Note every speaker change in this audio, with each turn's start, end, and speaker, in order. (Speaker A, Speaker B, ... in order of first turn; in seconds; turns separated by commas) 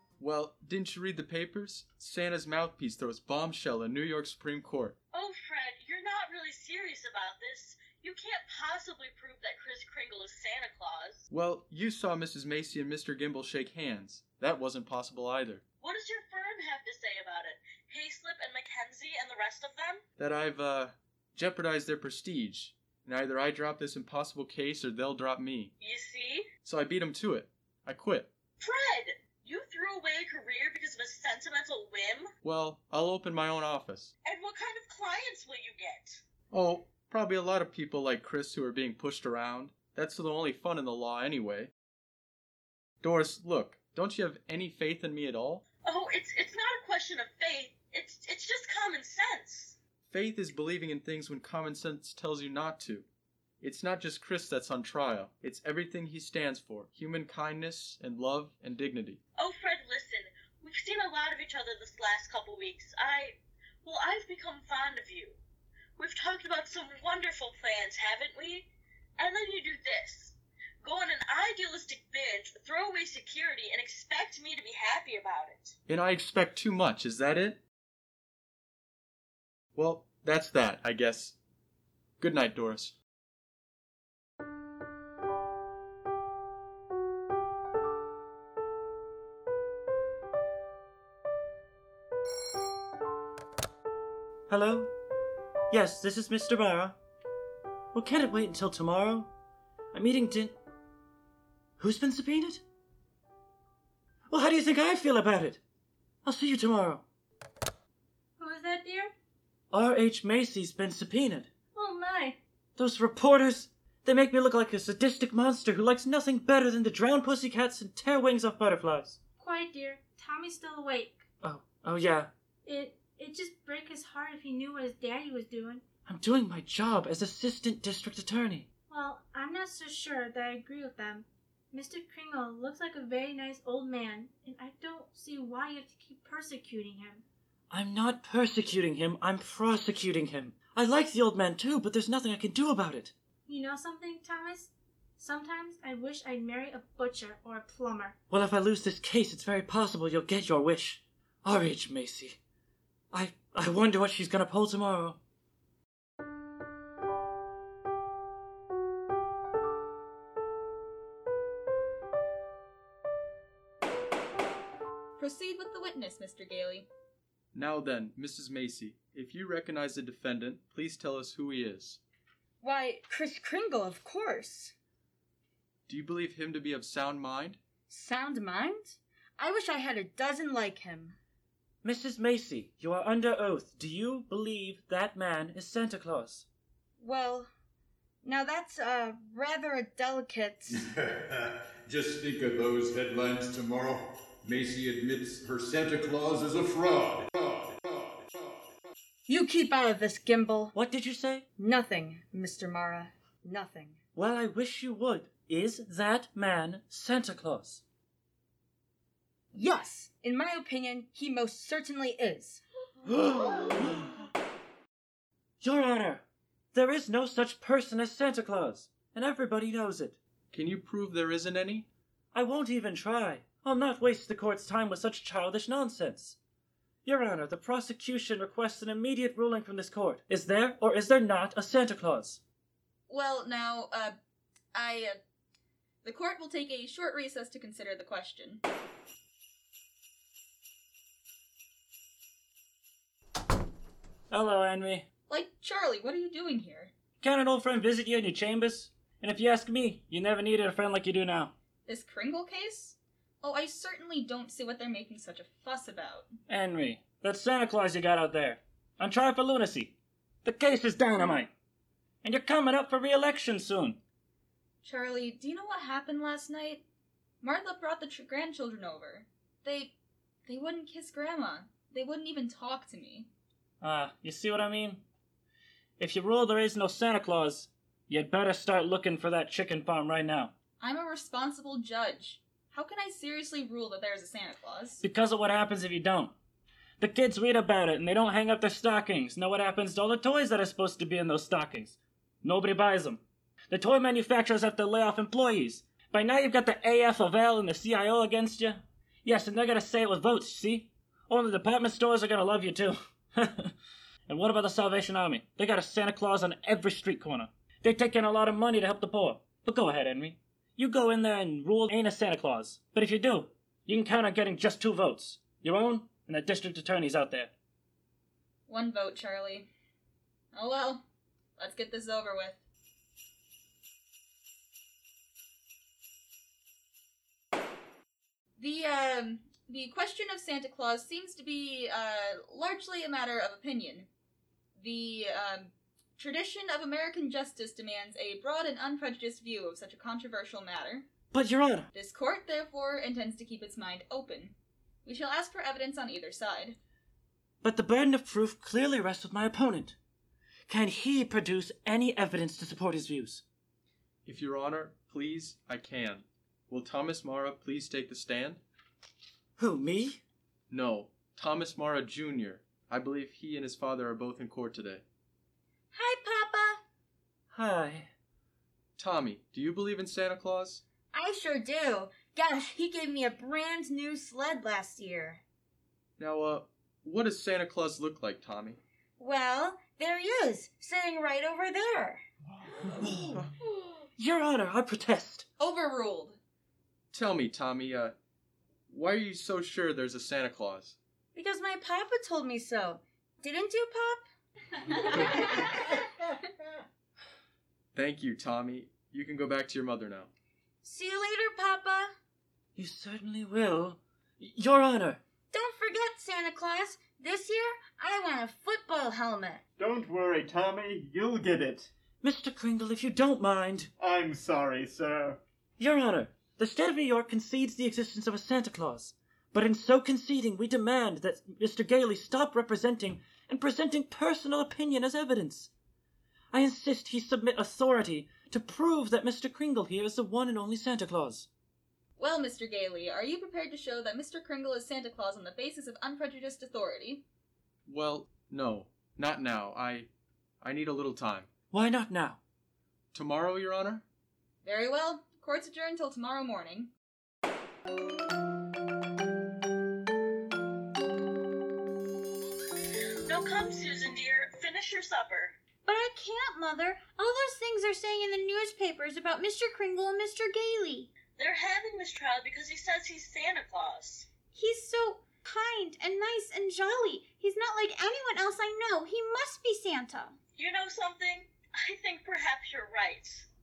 Speaker A: 0.2-5.0, Speaker B: 5.1-11.2, Speaker A: 11.3-15.6, Speaker B: 15.8-20.0, Speaker A: 20.2-25.7, Speaker B: 25.8-26.5, Speaker A: 26.6-28.3, Speaker B: 28.6-32.3, Speaker A: 32.4-34.1, Speaker B: 34.2-36.2, Speaker A: 36.5-41.7, Speaker A: 43.0-45.6, Speaker B: 45.8-49.8, Speaker A: 50.1-53.1, Speaker A: 53.6-59.2, Speaker B: 59.4-65.4, Speaker B: 66.0-75.8, Speaker A: 75.9-77.6, Speaker A: 79.8-81.3, Speaker A: 82.2-83.0, Speaker C: 94.5-94.9, Speaker C: 95.7-97.0, Speaker C: 97.9-99.3, Speaker C: 99.9-100.6, Speaker C: 101.8-102.6, Speaker C: 104.3-105.6, Speaker C: 106.2-107.0, Speaker D: 108.4-109.1, Speaker C: 109.7-111.5, Speaker D: 111.7-112.4, Speaker C: 112.8-119.2, Speaker D: 119.4-121.3, Speaker C: 121.4-122.3, Speaker D: 122.7-125.8, Speaker C: 126.1-128.7, Speaker D: 128.9-137.2, Speaker C: 137.7-143.1, Speaker D: 143.5-148.2, Speaker C: 148.3-152.4, Speaker C: 153.1-155.2, Speaker E: 165.2-166.9, Speaker A: 167.5-172.0, Speaker F: 172.6-174.7, Speaker A: 175.9-177.6, Speaker F: 177.9-181.2, Speaker C: 181.8-186.5, Speaker F: 187.0-187.5, Speaker F: 188.2-190.8, Speaker G: 190.8-198.7, Speaker F: 199.3-200.8, Speaker C: 200.7-201.4, Speaker F: 201.6-204.0, Speaker C: 204.2-207.8, Speaker F: 209.5-212.6, Speaker C: 213.1-214.0, Speaker C: 215.6-220.2, Speaker A: 220.5-221.9, Speaker C: 222.3-226.4, Speaker C: 227.1-232.4, Speaker E: 233.1-234.2, Speaker E: 234.7-235.2, Speaker E: 236.0-238.6, Speaker C: 244.3-245.0, Speaker E: 245.3-246.9, Speaker C: 247.2-251.5, Speaker E: 251.9-256.3, Speaker C: 256.5-259.9, Speaker C: 260.4-261.5, Speaker C: 262.2-264.0, Speaker E: 264.8-266.8, Speaker E: 267.4-269.9, Speaker E: 270.5-273.3, Speaker C: 273.8-275.0, Speaker C: 276.0-280.5, Speaker E: 280.8-285.0, Speaker C: 285.0-286.3, Speaker C: 287.0-293.2, Speaker C: 293.7-303.7, Speaker C: 304.3-317.5, Speaker E: 318.7-319.7, Speaker E: 320.5-321.0, Speaker E: 321.6-322.6, Speaker E: 328.6-334.1, Speaker E: 334.8-341.1, Speaker C: 341.3-341.9, Speaker E: 341.9-346.8, Speaker C: 347.6-350.0, Speaker C: 350.7-353.4, Speaker A: 354.2-358.6, Speaker C: 359.6-360.2, Speaker A: 360.7-365.0, Speaker H: 365.9-366.8, Speaker C: 367.5-368.1, Speaker A: 369.0-370.8, Speaker F: 371.1-375.4, Speaker A: 376.2-378.8, Speaker F: 379.2-382.2, Speaker C: 383.1-383.4, Speaker C: 384.2-385.5, Speaker E: 385.6-386.4, Speaker A: 387.1-388.1, Speaker A: 388.9-391.0, Speaker F: 391.4-394.2, Speaker A: 397.9-400.3, Speaker H: 400.9-402.1, Speaker C: 402.8-405.2, Speaker F: 405.5-409.6, Speaker I: 409.8-411.9, Speaker C: 412.2-413.9, Speaker I: 414.0-415.4, Speaker C: 415.8-425.7, Speaker C: 426.5-431.5, Speaker E: 432.2-437.2, Speaker A: 437.9-440.1, Speaker A: 440.6-441.5, Speaker C: 441.7-442.4, Speaker A: 443.1-444.0, Speaker E: 444.6-446.9, Speaker B: 453.2-455.6, Speaker H: 455.9-461.1, Speaker B: 461.4-464.3, Speaker H: 464.5-470.4, Speaker B: 470.6-473.5